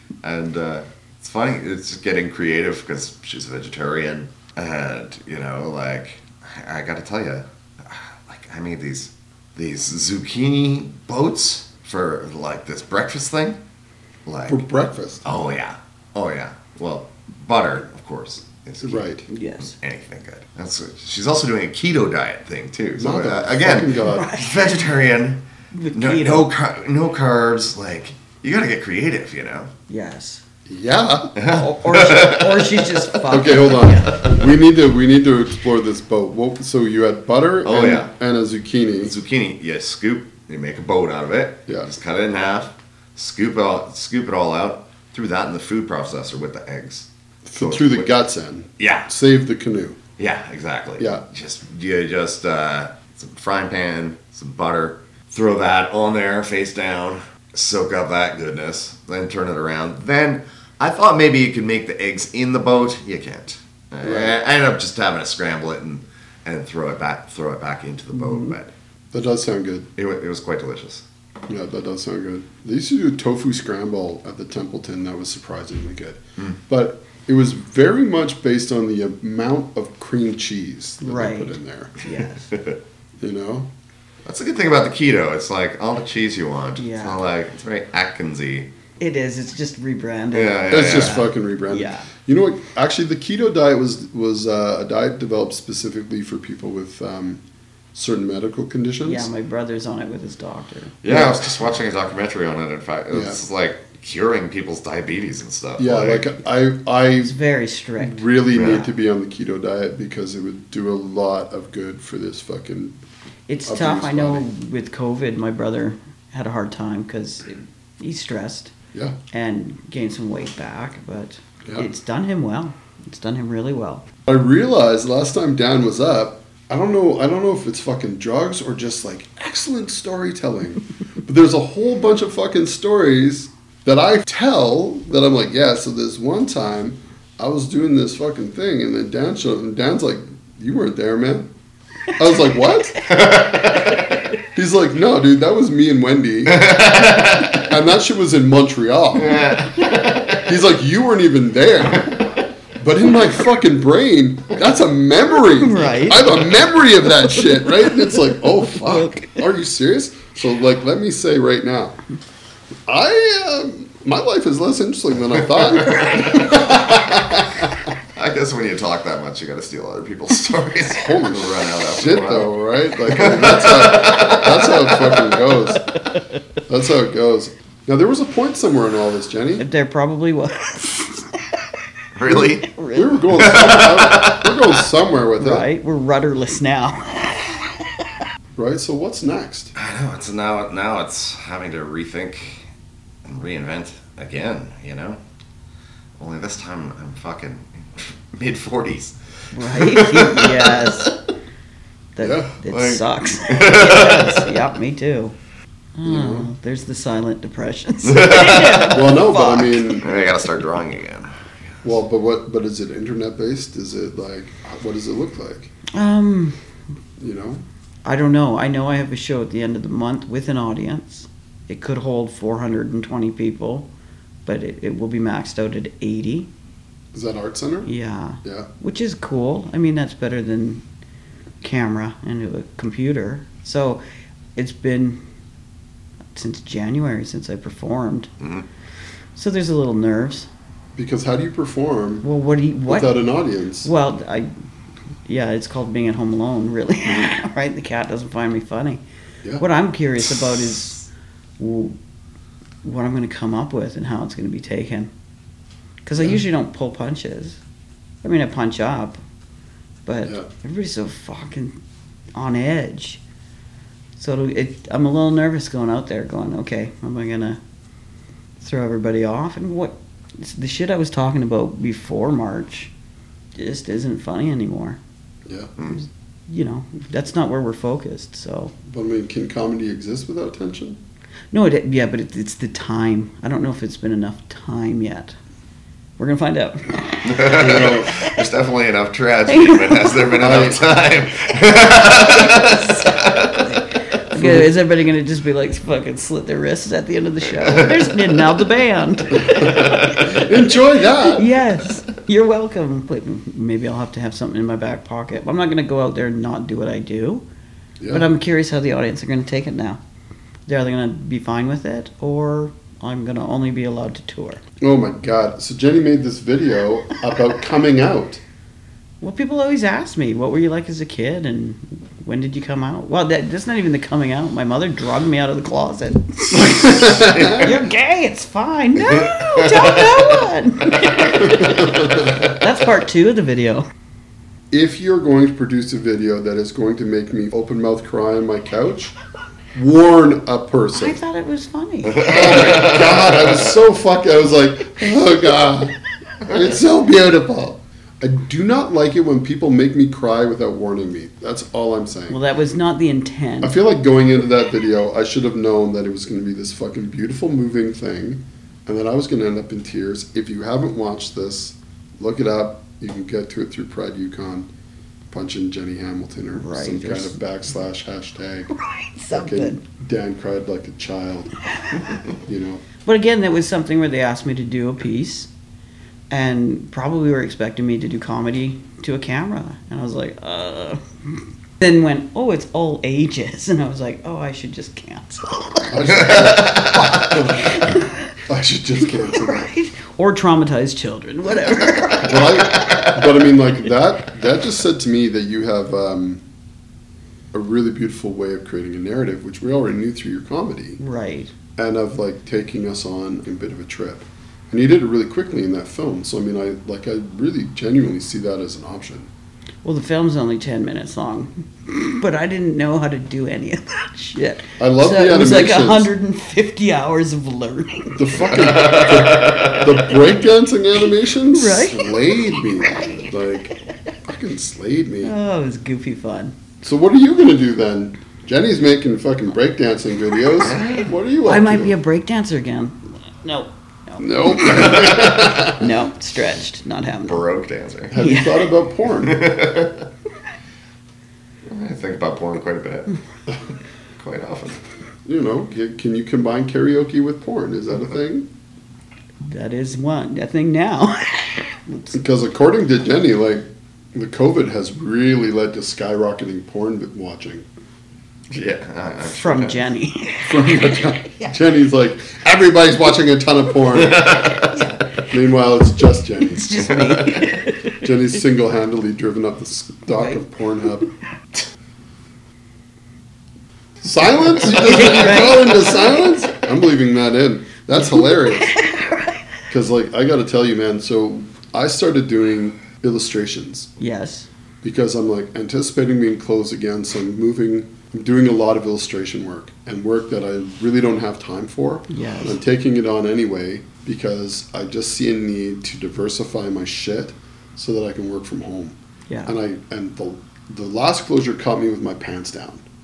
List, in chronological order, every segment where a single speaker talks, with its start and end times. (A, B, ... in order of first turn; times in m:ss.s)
0:00.2-0:13.6 A
0:14.2-0:14.6 A
0:14.5-0:15.3 B
0:15.2-0:19.1 A
0:18.8-0:19.2 B
0:19.3-0:19.7 C
0:19.6-0:25.4 A
0:23.0-0:24.3 B
0:24.0-0:24.5 C
0:25.7-0:26.5 C
0:25.9-0:29.7 A
0:29.9-0:30.4 C
0:30.6-0:31.3 B
0:31.3-0:33.6 A
0:31.5-0:34.3 C
0:33.3-0:39.2 B
0:37.6-0:38.1 A
0:39.0-0:47.1 A
0:47.4-0:50.0 B
0:47.6-0:48.1 A
0:48.8-0:49.1 A
0:50.2-1:08.7 A
0:51.0-0:51.2 B
1:04.0-1:04.4 B
1:08.2-1:08.5 C
1:09.1-1:09.9 B
1:10.0-1:11.0 A
1:11.5-1:21.9 B
1:21.0-1:22.5 C
1:22.5-1:22.8 A
1:23.2-1:23.7 B
1:24.2-1:28.7 A
1:26.8-1:27.2 C
1:29.0-1:32.1 C
1:30.3-1:31.3 A
1:30.7-1:37.4 B
1:37.9-1:39.3 B
1:39.0-1:41.0 C
1:41.0-1:46.3 A
1:41.1-1:41.5 B
1:43.1-1:43.4 B
1:45.8-1:47.3 B
1:47.2-1:48.7 C
1:48.0-1:53.0 B
1:48.5-1:48.8 A
1:53.5-1:58.7 C
1:53.6-1:54.4 B
1:59.3-2:04.0 C
2:04.2-2:21.5 B
2:22.1-2:23.2 B
2:23.0-2:24.2 A
2:24.5-2:26.7 B
2:26.4-2:27.7 A
2:27.5-2:29.7 B
2:29.2-2:30.6 A
2:30.4-2:32.2 B
2:31.9-2:32.2 A
2:32.8-2:42.0 B
2:35.5-2:36.5 C
2:37.2-2:39.4 C
2:42.9-2:47.8 B
2:45.5-2:55.4 A
2:50.8-2:55.9 B
2:56.0-2:56.2 C
2:56.7-2:59.6 B
2:59.6-3:01.6 C
3:02.1-3:02.7 A
3:02.3-3:03.2 C
3:02.9-3:05.7 B
3:03.3-3:04.8 A
3:05.4-3:08.1 C
3:08.6-3:09.7 B
3:09.7-3:12.7 A
3:13.2-3:15.2 A
3:16.2-3:21.1 A
3:19.5-3:21.2 C
3:22.2-3:25.3 C
3:22.2-3:22.5 B
3:22.7-3:24.5 A
3:26.0-3:30.0 C
3:26.0-3:26.5 B
3:28.0-3:29.0 A
3:28.9-3:30.0 B
3:30.0-3:31.9 A
3:31.8-3:35.7 B
3:35.9-3:36.6 C
3:37.2-3:37.6 B
3:38.0-3:43.9 C
3:44.4-3:46.5 C
3:47.1-3:47.9 B
3:47.8-3:50.8 C
3:48.4-3:48.7 B
3:51.6-3:54.0 C
3:54.6-3:55.2 C
3:56.3-3:58.3 C
3:59.3-4:00.5 C
4:01.0-4:02.2 B
4:02.2-4:03.2 C
4:02.9-4:03.9 B
4:03.8-4:04.5 C
4:05.2-4:09.0 C
4:07.0-4:07.4 B
4:09.6-4:11.0 C
4:11.6-4:12.0 C
4:12.8-4:15.1 C
4:16.0-4:17.6 C
4:18.2-4:19.2 C
4:20.0-4:21.8 C
4:22.3-4:23.2 C
4:24.2-4:27.6 C
4:28.6-4:32.9 C
4:33.5-4:35.0 C
4:35.5-4:35.7 B
4:35.9-4:38.7 C
4:38.8-4:41.0 B
4:41.5-4:45.4 C
4:46.2-4:47.5 C
4:47.2-4:53.7 A
4:47.5-4:48.1 B
4:49.5-4:50.2 C
4:50.4-4:50.8 B
4:52.1-5:07.4 C
4:54.3-4:54.7 B
4:57.4-4:58.4 A
4:59.4-5:01.5 B
4:59.5-5:00.3 A
5:08.0-5:08.3 B
5:08.1-5:10.0 C
5:10.7-5:14.6 C
5:14.8-5:18.4 B
5:19.2-5:33.9 C
5:26.5-5:27.8 A
5:26.8-5:27.6 B
5:29.0-5:31.7 A
5:31.6-5:32.3 B
5:34.7-5:39.1 B
5:39.7-5:41.2 B
5:40.9-5:42.5 C
5:42.1-5:43.6 A
5:42.2-5:52.4 B
5:52.3-5:53.8 C
5:53.6-6:04.7 B
6:05.3-6:08.7 B
6:06.6-6:07.4 C
6:08.7-6:09.8 C
6:09.3-6:11.5 B
6:12.3-6:12.8 B
6:13.0-6:15.5 C
6:16.3-6:26.6 C
6:25.9-6:27.9 B
6:26.1-6:27.4 A
6:27.6-6:28.1 C
6:28.5-6:29.7 B
6:29.3-6:32.5 C
6:32.2-6:36.4 B
6:32.5-6:33.3 A
6:37.5-6:41.0 B
6:41.0-6:41.5 C
6:41.8-6:49.3 B
6:49.8-6:58.2 C
6:54.8-6:56.1 B
6:58.1-7:05.3 B
6:58.5-7:00.0 A
7:01.4-7:02.1 C
7:05.2-7:06.5 C
7:06.8-7:12.0 B
7:10.6-7:11.1 A
7:11.4-7:17.4 C
7:14.2-7:15.9 B
7:17.2-7:18.2 A
7:18.1-7:19.4 B
7:18.1-7:18.7 C
7:19.2-7:20.1 A
7:21.6-7:24.8 A
7:25.2-7:28.5 B
7:29.4-7:32.1 C
7:32.1-7:37.6 B
7:38.5-7:39.8 A
7:39.3-7:41.6 C
7:40.4-7:44.6 B
7:43.9-7:44.8 A
7:44.7-7:45.2 C
7:45.3-7:46.8 B
7:46.4-7:48.0 C
7:46.9-7:47.5 A
7:48.0-7:51.1 B
7:50.1-7:50.4 C
7:54.0-7:58.8 B
7:54.7-7:56.2 C
7:58.1-7:59.3 C
7:59.7-8:03.9 B
8:04.0-8:04.5 C
8:04.8-8:22.8 B
8:12.1-8:12.6 C
8:19.3-8:19.5 C